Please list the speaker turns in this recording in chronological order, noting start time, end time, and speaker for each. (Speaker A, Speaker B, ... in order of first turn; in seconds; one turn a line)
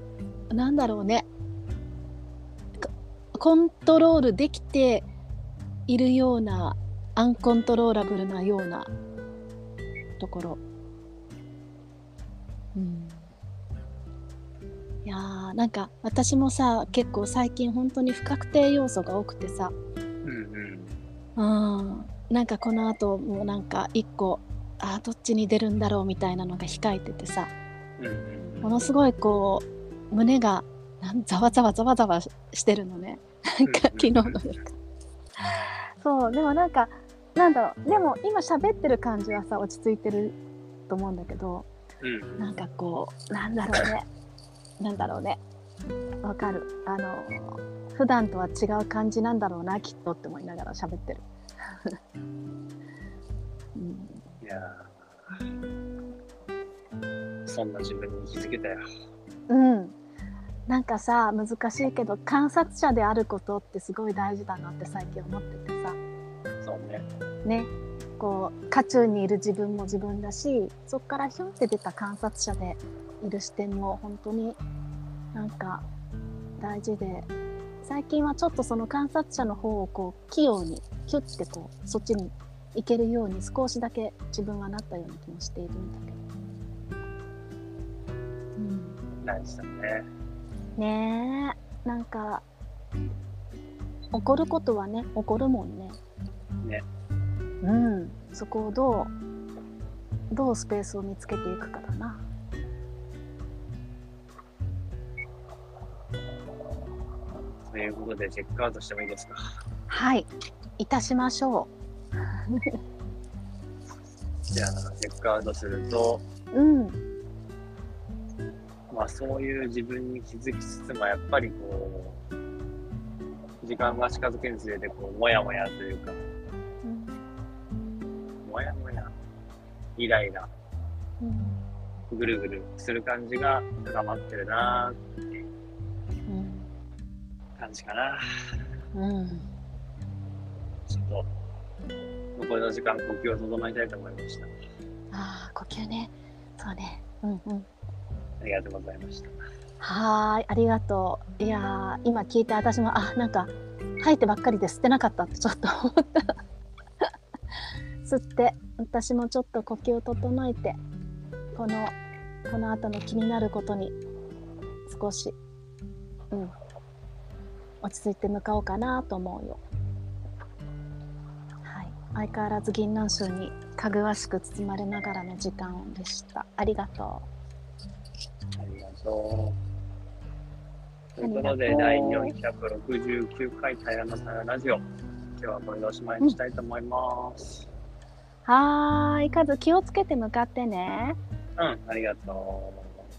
Speaker A: 0.5-1.3
Speaker A: 2.8-5.1
Speaker A: 5.9-8.9
Speaker A: 10.2-10.6
Speaker A: 12.8-13.3
Speaker A: 15.1-19.7
Speaker B: 20.2-21.0
Speaker A: 21.4-27.5
Speaker B: 28.0-28.8
Speaker A: 28.6-34.8
Speaker B: 33.6-34.4
Speaker A: 35.4-40.4
Speaker A: 40.9-41.7
Speaker B: 42.0-42.6
Speaker A: 42.4-44.1
Speaker A: 44.8-45.4
Speaker A: 46.2-51.2
Speaker A: 53.8-54.2
Speaker B: 54.4-55.4
Speaker B: 57.5-58.8
Speaker A: 59.5-60.0
Speaker A: 60.7-66.0
Speaker B: 66.6-67.1
Speaker A: 67.5-74.6
Speaker A: 75.3-75.9
Speaker A: 76.6-77.3
Speaker A: 77.8-86.2
Speaker A: 88.6-89.0
Speaker B: 89.2-90.1
Speaker A: 90.8-92.5
Speaker A: 94.1-96.0
Speaker A: 97.6-99.1
Speaker A: 100.3-102.2
Speaker B: 107.7-109.4
Speaker A: 109.9-111.7
Speaker B: 114.5-116.2
Speaker A: 116.5-117.0
Speaker B: 118.9-122.2
Speaker B: 123.6-126.2
Speaker A: 126.8-127.2
Speaker B: 128.4-129.1
Speaker B: 130.0-130.5
Speaker A: 131.2-131.6
Speaker B: 132.1-135.5
Speaker A: 136.3-136.7
Speaker B: 137.6-138.6
Speaker A: 138.9-139.5
Speaker B: 140.9-141.3
Speaker B: 142.4-144.5
Speaker A: 145.1-147.7
Speaker B: 148.4-149.4
Speaker A: 149.8-156.4
Speaker A: 158.0-160.8
Speaker A: 161.6-164.0
Speaker A: 164.9-165.4
Speaker A: 167.8-169.6
Speaker A: 171.7-177.3
Speaker B: 178.6-179.6
Speaker B: 181.2-184.8
Speaker A: 181.2-182.4
Speaker B: 185.4-187.7
Speaker A: 188.5-191.2
Speaker B: 191.6-193.1